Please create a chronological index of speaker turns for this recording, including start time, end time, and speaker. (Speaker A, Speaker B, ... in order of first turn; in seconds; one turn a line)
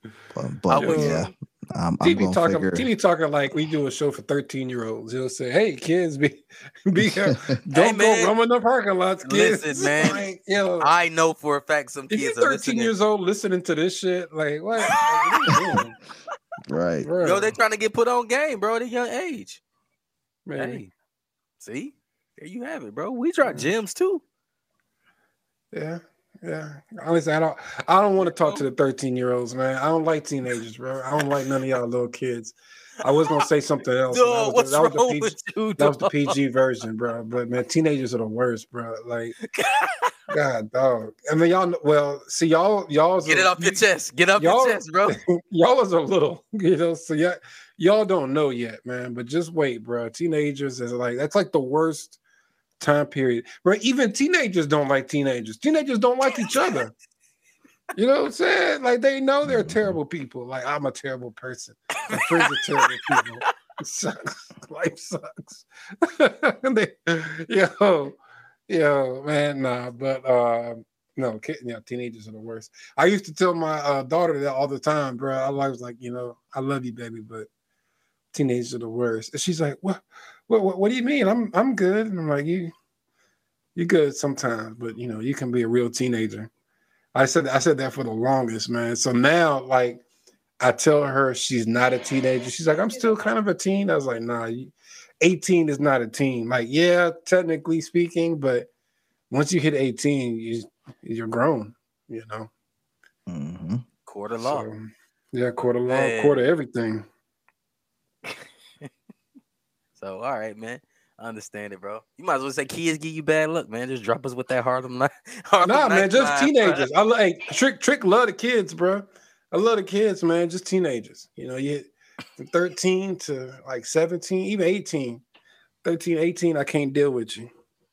Speaker A: 0.3-2.9
Speaker B: 0.7-1.3
Speaker C: 0.8-1.2
Speaker C: 2.0-10.9
Speaker A: 7.0-7.5
Speaker B: 7.7-8.3
Speaker B: 9.2-10.2
Speaker B: 10.8-12.9
Speaker C: 12.1-15.9
Speaker B: 14.8-15.8
Speaker A: 16.7-17.1
Speaker C: 17.0-17.5
Speaker B: 17.2-19.6
Speaker C: 20.4-20.8
Speaker B: 20.6-20.9
Speaker B: 21.6-24.2
Speaker C: 23.4-23.7
Speaker C: 25.7-39.4
Speaker B: 28.2-28.6
Speaker B: 34.1-36.3
Speaker B: 39.5-40.1
Speaker C: 40.3-43.8
Speaker B: 43.2-45.2
Speaker C: 44.4-52.2
Speaker C: 52.8-56.9
Speaker C: 58.0-68.2
Speaker A: 59.5-60.0
Speaker B: 62.1-63.5
Speaker C: 68.7-77.5
Speaker C: 78.3-82.7
Speaker C: 83.8-86.5
Speaker C: 87.1-90.0
Speaker C: 90.6-98.7
Speaker C: 99.3-102.5
Speaker A: 103.3-103.8
Speaker B: 104.0-104.7
Speaker C: 104.4-107.0
Speaker B: 105.9-106.5
Speaker B: 108.2-108.9
Speaker B: 110.0-116.8
Speaker C: 115.6-125.2
Speaker C: 125.8-127.5